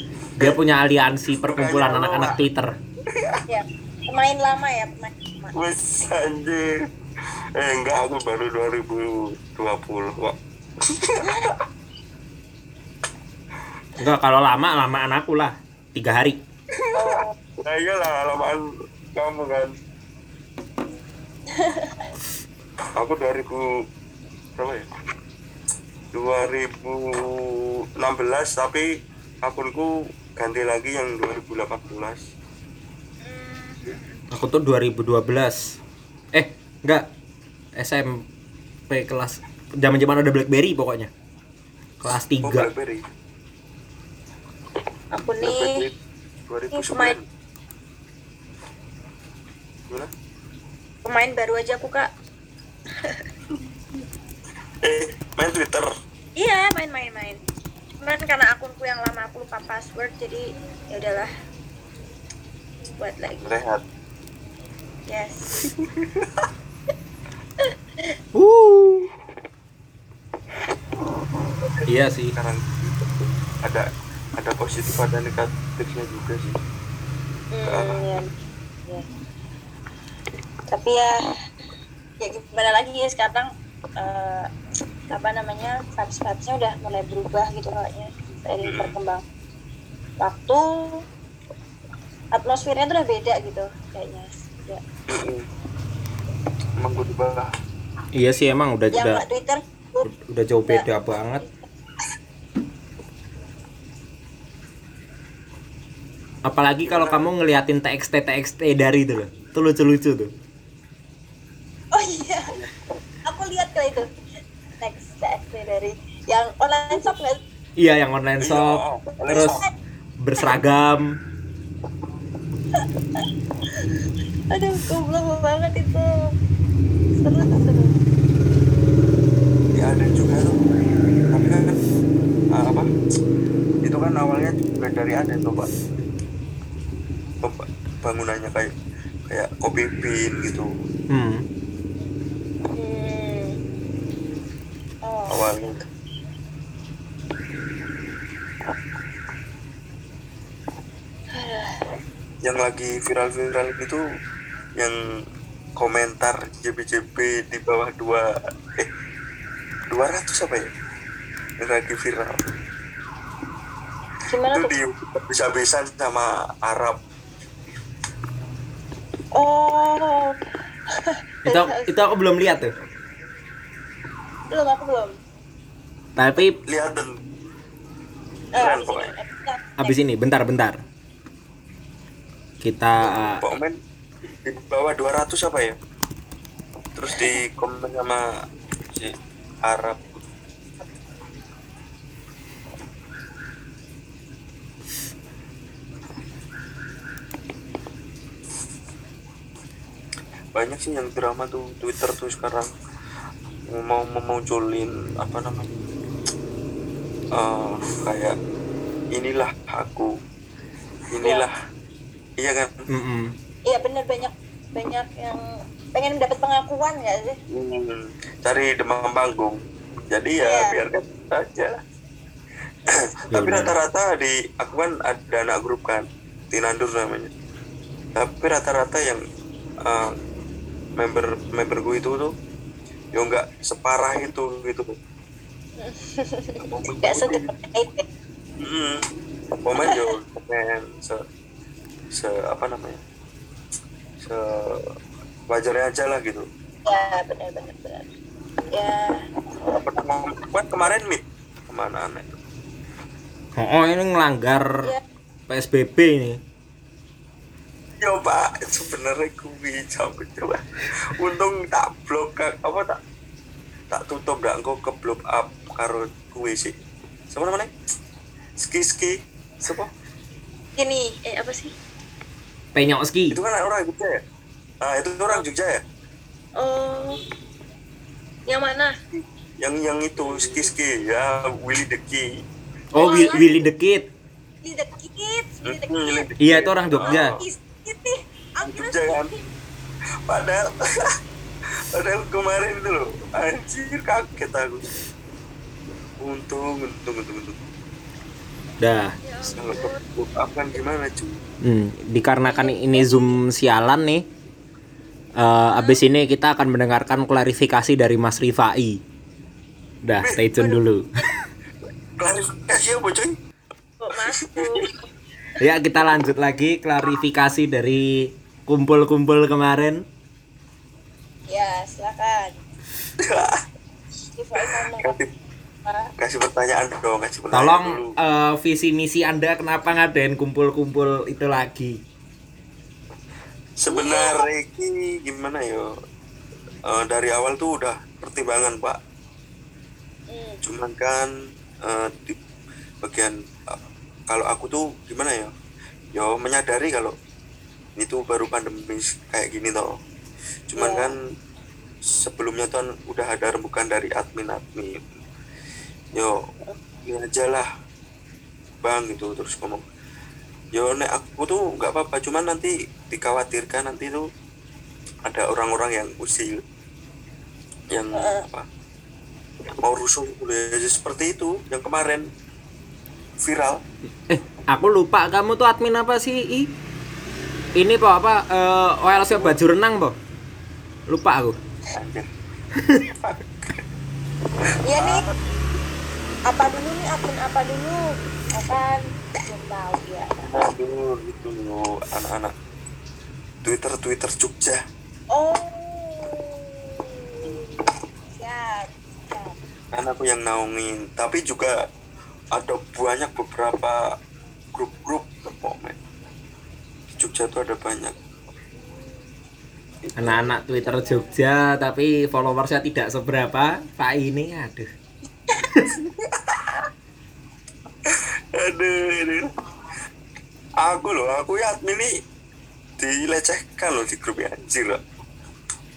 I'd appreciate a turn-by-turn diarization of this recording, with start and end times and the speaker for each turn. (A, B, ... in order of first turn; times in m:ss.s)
0:00.4-0:02.7 A
0:01.4-0:02.4 B
0:03.1-0:03.4 B
0:03.5-0:05.5 C
0:05.5-0:06.7 B
0:07.6-0:11.6 B
0:11.2-0:11.5 C
0:14.0-0:16.4 A
0:16.7-0:18.6 B
0:16.9-0:17.3 C
0:19.1-0:19.7 B
0:21.5-0:22.1 C
0:23.0-0:23.7 B
0:24.6-0:24.8 B
0:26.1-0:28.8 B
0:29.4-0:32.2 B
0:33.2-0:34.2 C
0:34.3-0:35.8 A
0:36.3-0:37.0 A
0:37.8-0:38.2 A
0:38.9-0:41.1 A
0:42.0-0:42.7 A
0:42.4-0:43.0 B
0:45.1-0:45.8 C
0:45.4-0:45.9 B
0:46.5-0:47.2 B
0:46.7-0:47.2 C
0:51.0-0:52.1 C
0:54.8-0:55.9 B
0:56.4-0:57.4 C
0:58.0-1:01.3 C
1:03.0-1:03.6 C
1:03.4-1:03.8 B
1:05.1-1:05.7 C
1:05.6-1:06.3 B
1:07.6-1:08.1 C
1:08.3-1:09.1 A
1:11.6-1:16.6 B
1:11.9-1:12.4 A
1:17.5-1:18.3 C
1:17.6-1:18.0 B
1:20.7-1:21.2 C
1:22.2-1:24.5 C
1:25.1-1:29.2 C
1:28.6-1:28.9 B
1:30.2-1:31.0 C
1:32.3-1:34.8 C
1:35.1-1:35.4 B
1:36.8-1:37.5 B
1:38.1-1:39.2 A
1:38.9-1:40.1 C
1:40.0-1:41.4 A
1:41.4-1:41.6 C
1:46.4-1:50.3 A
1:46.8-1:47.2 B
1:51.9-1:52.6 C
1:53.2-1:54.0 C
1:54.8-1:57.4 C
1:57.8-1:59.6 A
1:58.4-1:59.6 B
1:59.3-1:59.7 C
2:00.2-2:01.1 A
2:02.8-2:03.2 C
2:04.5-2:06.3 C
2:07.2-2:08.0 C
2:09.7-2:10.6 B
2:11.3-2:11.8 B
2:12.5-2:12.9 B
2:13.8-2:15.7 B
2:17.4-2:18.7 B
2:19.3-2:20.7 B
2:21.1-2:21.4 A
2:22.7-2:23.6 C
2:25.0-2:25.5 C
2:25.3-2:25.8 B
2:31.3-2:31.8 C
2:32.4-2:34.0 B
2:35.8-2:38.9 B
2:39.9-2:40.7 B
2:41.6-2:42.4 B
2:44.3-2:44.7 C
2:44.5-2:47.0 B
2:49.3-2:50.4 C
2:50.9-2:51.9 C
2:51.4-2:52.7 A
2:54.5-2:55.1 C
2:56.2-2:56.6 A
2:56.6-2:57.1 B
2:58.5-3:00.0 C
2:58.6-2:59.1 B
2:59.8-3:00.8 A
3:02.6-3:03.4 A
3:03.0-3:03.8 B
3:04.4-3:05.7 B
3:07.0-3:08.2 B
3:07.1-3:07.4 C
3:08.9-3:10.0 B
3:20.5-3:22.7 B
3:23.7-3:25.7 B
3:27.3-3:28.4 B
3:29.1-3:30.1 B
3:31.1-3:31.5 B
3:31.2-3:31.5 C
3:32.4-3:32.8 B
3:32.9-3:33.3 A
3:33.6-3:35.4 C
3:35.9-3:37.4 C
3:37.5-3:39.6 B
3:40.1-3:41.7 B
3:40.4-3:40.8 C
3:42.9-3:47.3 B
3:43.3-3:43.7 A
3:48.2-3:49.2 B
3:49.8-3:50.1 B
3:51.0-3:52.3 B
3:53.1-3:54.9 B
3:55.8-3:58.0 C
3:56.7-3:57.5 B
3:58.6-3:59.0 B
3:59.6-4:01.2 B
3:59.8-4:00.1 C
4:02.1-4:03.0 B
4:04.2-4:04.8 B
4:05.5-4:06.4 B
4:06.8-4:08.1 C
4:08.7-4:09.2 C
4:09.8-4:12.4 B
4:13.6-4:14.9 A
4:15.5-4:16.4 A
4:18.0-4:23.0 B
4:23.9-4:26.7 B
4:27.3-4:27.7 B
4:28.6-4:29.9 B
4:30.8-4:31.7 C
4:32.7-4:33.4 A
4:33.3-4:34.2 B
4:34.8-4:35.8 B
4:36.6-4:37.2 C
4:38.5-4:38.9 C
4:39.6-4:42.3 B
4:40.3-4:40.6 C
4:42.9-4:44.1 A
4:43.0-4:43.7 C
4:44.6-4:46.3 C
4:45.6-4:47.4 B
4:46.4-4:47.4 A
4:47.0-4:49.4 C
4:48.6-4:49.3 B
4:50.3-4:51.1 B
4:51.9-4:55.0 B
4:56.2-4:57.6 B
4:58.8-4:59.2 A
4:59.2-5:00.0 C
4:59.4-5:01.4 B
5:01.6-5:04.2 A
5:02.4-5:03.4 C
5:05.4-5:09.0 A
5:05.7-5:06.0 C
5:10.0-5:11.1 A
5:10.2-5:10.5 B
5:10.6-5:11.4 C
5:12.2-5:13.4 B
5:14.0-5:15.0 C
5:14.3-5:14.9 B
5:15.6-5:20.0 A
5:21.5-5:22.6 C
5:23.2-5:23.6 B
5:24.4-5:25.2 C
5:24.6-5:25.3 B
5:25.8-5:26.1 C
5:26.2-5:28.1 B
5:27.5-5:32.0 A
5:33.8-5:35.9 B
5:33.9-5:34.4 C
5:36.9-5:39.0 B
5:40.3-5:40.6 C
5:40.6-5:41.3 B
5:41.8-5:42.4 B
5:43.0-5:45.5 B
5:46.1-5:47.1 B
5:48.0-5:49.9 B
5:50.7-5:51.2 B
5:50.8-5:51.1 C
5:52.1-5:55.0 B
5:57.1-5:57.6 B
5:58.8-5:59.8 B
6:00.7-6:04.2 B
6:05.2-6:06.6 B
6:07.9-6:08.6 B
6:08.1-6:08.4 C
6:09.8-6:12.3 B
6:13.4-6:13.8 B
6:14.3-6:16.7 A
6:17.8-6:20.1 A
6:21.1-6:21.6 A
6:21.9-6:22.3 B
6:22.8-6:23.0 A
6:22.9-6:23.8 B
6:24.9-6:25.2 C
6:24.9-6:25.4 B
6:26.5-6:28.0 C
6:28.5-6:30.3 C
6:30.4-6:32.5 B
6:33.6-6:34.8 B
6:35.3-6:39.6 C
6:39.9-6:41.8 B
6:42.5-6:44.0 B
6:44.7-6:46.0 B
6:47.1-6:48.1 B
6:50.0-6:50.4 B
6:50.2-6:54.9 A
6:50.8-6:51.4 C
6:55.6-6:55.9 A
6:56.0-6:56.7 B
6:58.1-6:59.5 B
7:00.8-7:02.1 B
7:03.0-7:05.0 B